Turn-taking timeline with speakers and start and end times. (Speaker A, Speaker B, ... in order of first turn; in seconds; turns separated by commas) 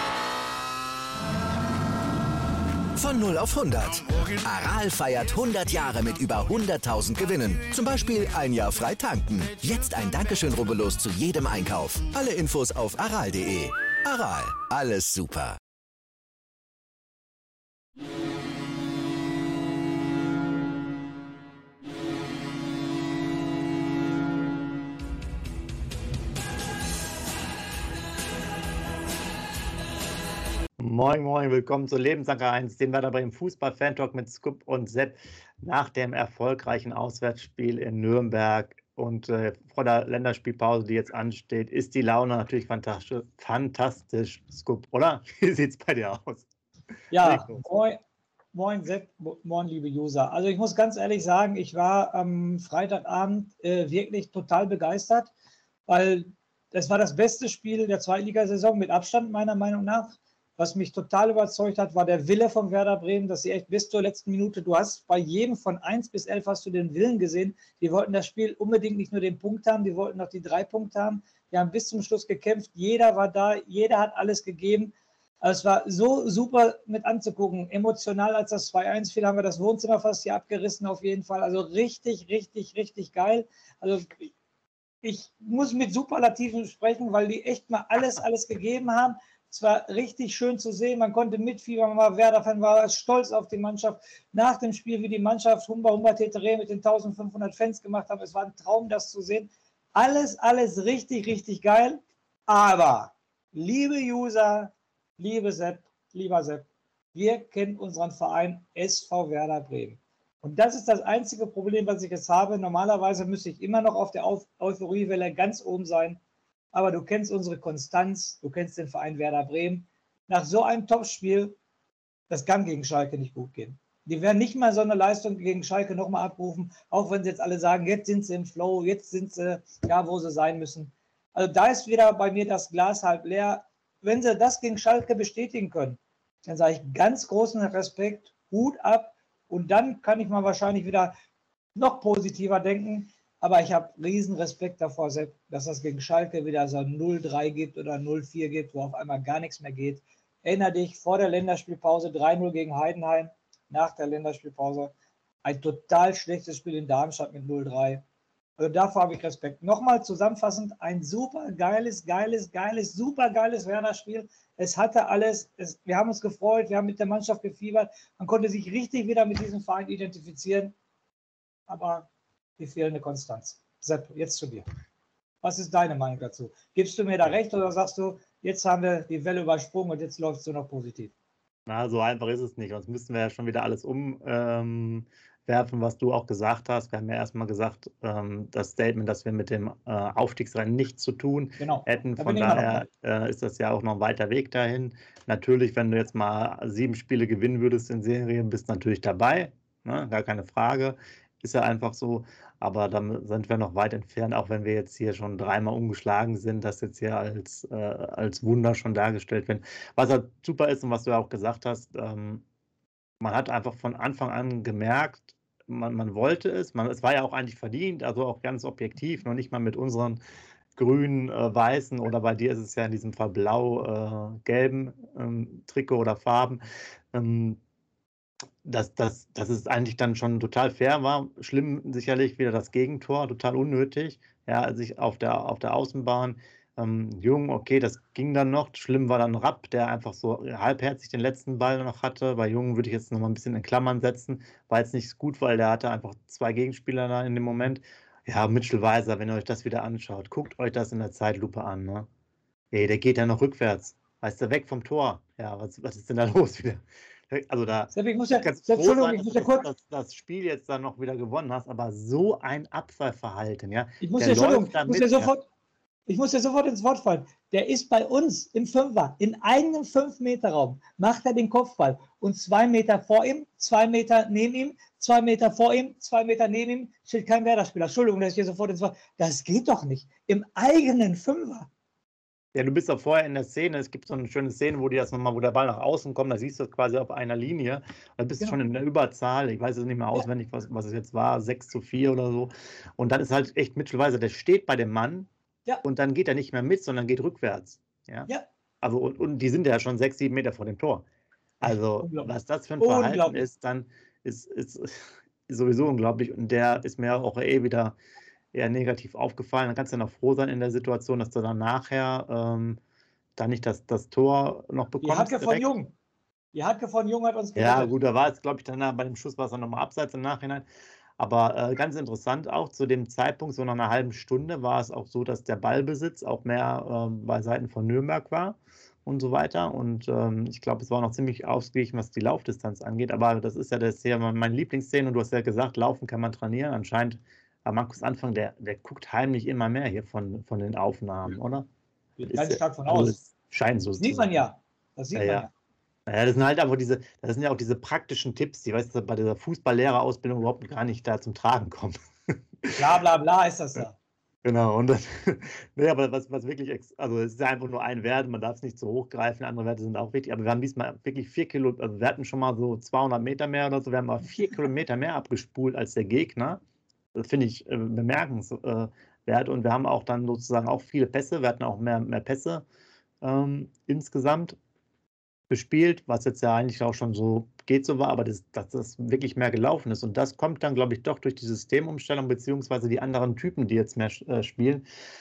Speaker A: 3.0-15.6, Speaker B: 30.8-46.5, Speaker C: 47.1-48.0, Speaker B: 47.2-47.6, Speaker C: 48.5-55.3, Speaker C: 55.9-84.3, Speaker C: 85.0-116.2, Speaker C: 116.7-121.6, Speaker C: 122.3-141.1, Speaker C: 141.8-154.9, Speaker C: 155.4-158.0, Speaker C: 158.6-170.8, Speaker C: 171.7-172.1, Speaker C: 172.6-174.6, Speaker C: 175.4-181.1, Speaker B: 181.7-212.4, Speaker C: 191.6-192.9, Speaker B: 213.2-220.2, Speaker B: 220.8-226.6, Speaker B: 227.1-227.6, Speaker B: 228.6-252.1, Speaker B: 252.7-265.3, Speaker C: 257.9-259.7, Speaker C: 264.0-265.4, Speaker C: 266.1-281.7, Speaker B: 282.5-295.3, Speaker B: 295.8-298.3, Speaker B: 298.8-301.1, Speaker B: 301.6-308.0, Speaker C: 301.6-302.3, Speaker C: 302.8-303.4, Speaker B: 308.5-312.8, Speaker B: 313.4-315.7, Speaker C: 315.0-315.9, Speaker C: 316.5-317.9, Speaker B: 317.6-320.7, Speaker B: 321.2-341.7, Speaker C: 342.2-343.2, Speaker B: 342.3-344.4, Speaker C: 344.0-345.5, Speaker B: 345.1-345.5, Speaker B: 346.1-352.0, Speaker C: 352.8-353.9, Speaker B: 354.4-366.6, Speaker B: 367.1-372.6, Speaker B: 373.2-374.6, Speaker B: 375.5-384.9